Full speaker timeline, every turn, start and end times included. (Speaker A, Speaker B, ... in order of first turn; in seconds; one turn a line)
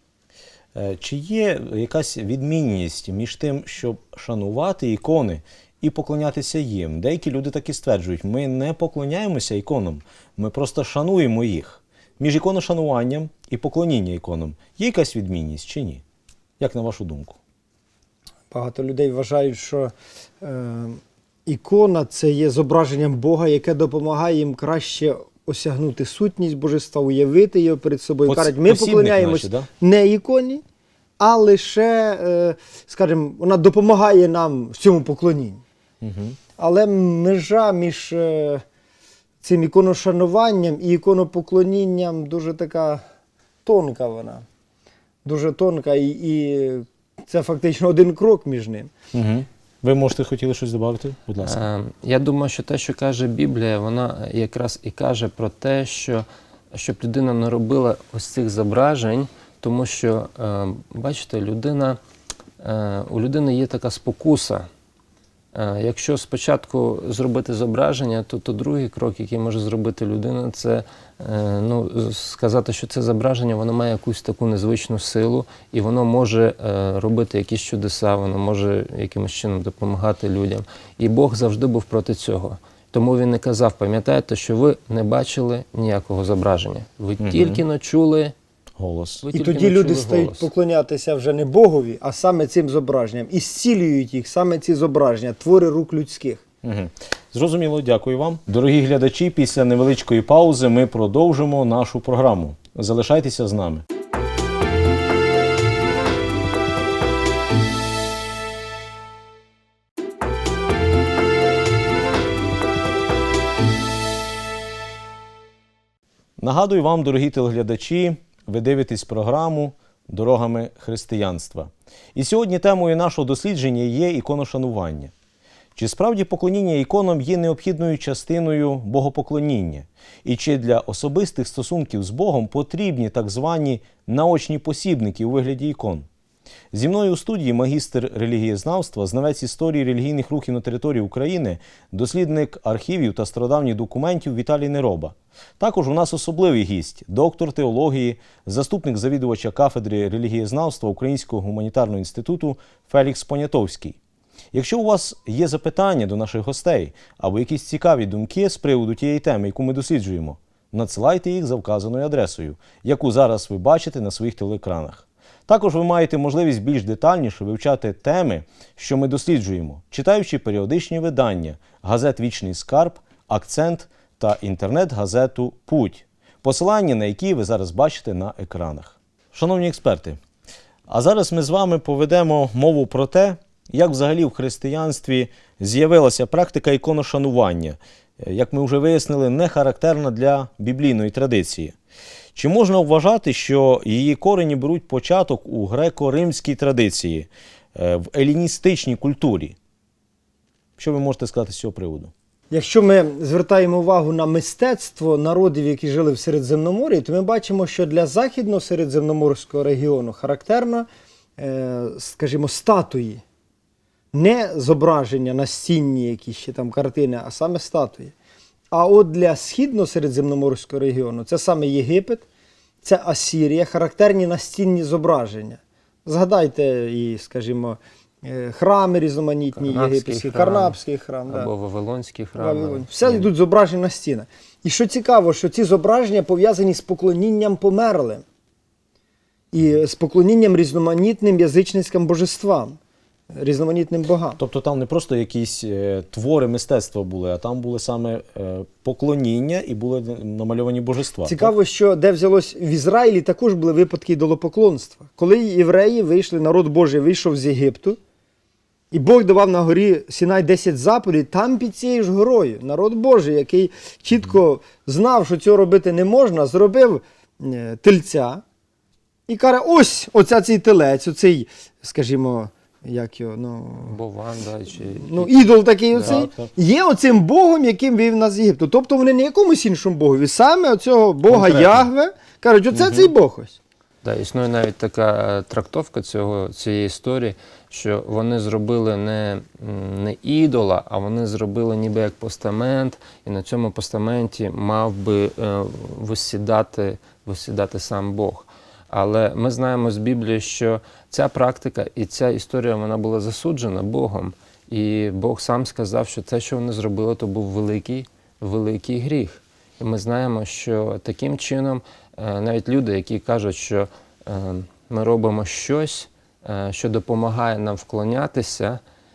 Speaker A: 0.8-16.0
Speaker A: 16.6-17.4
Speaker B: 18.5-30.6
Speaker A: 28.3-29.7
Speaker B: 31.2-35.6
Speaker A: 36.0-36.4
Speaker B: 36.6-38.6
Speaker B: 39.4-43.0
Speaker B: 43.6-44.5
Speaker B: 45.2-48.9
Speaker A: 49.1-51.6
Speaker C: 51.4-62.0
Speaker C: 62.6-64.7
Speaker C: 65.5-88.3
Speaker A: 87.2-87.6
Speaker A: 88.8-89.2
Speaker C: 89.2-90.5
Speaker B: 89.3-96.4
Speaker A: 96.6-103.8
Speaker A: 116.4-125.1
Speaker A: 125.8-136.1
Speaker A: 136.7-154.0
Speaker A: 154.5-180.2
Speaker A: 180.9-191.8
Speaker A: 192.3-199.6
Speaker A: 200.8-202.1
Speaker B: 202.5-213.2
Speaker B: 214.1-218.1
Speaker B: 218.7-222.2
Speaker B: 222.8-231.5
Speaker C: 229.6-233.3
Speaker B: 232.4-238.2
Speaker B: 239.5-242.8
Speaker B: 243.3-244.4
Speaker A: 244.4-251.5
Speaker B: 251.3-258.0
Speaker B: 258.9-268.4
Speaker B: 269.3-274.0
Speaker C: 273.8-276.3
Speaker B: 274.9-283.6
Speaker A: 275.9-276.5
Speaker A: 281.3-281.9
Speaker A: 282.8-283.0
Speaker C: 284.0-318.8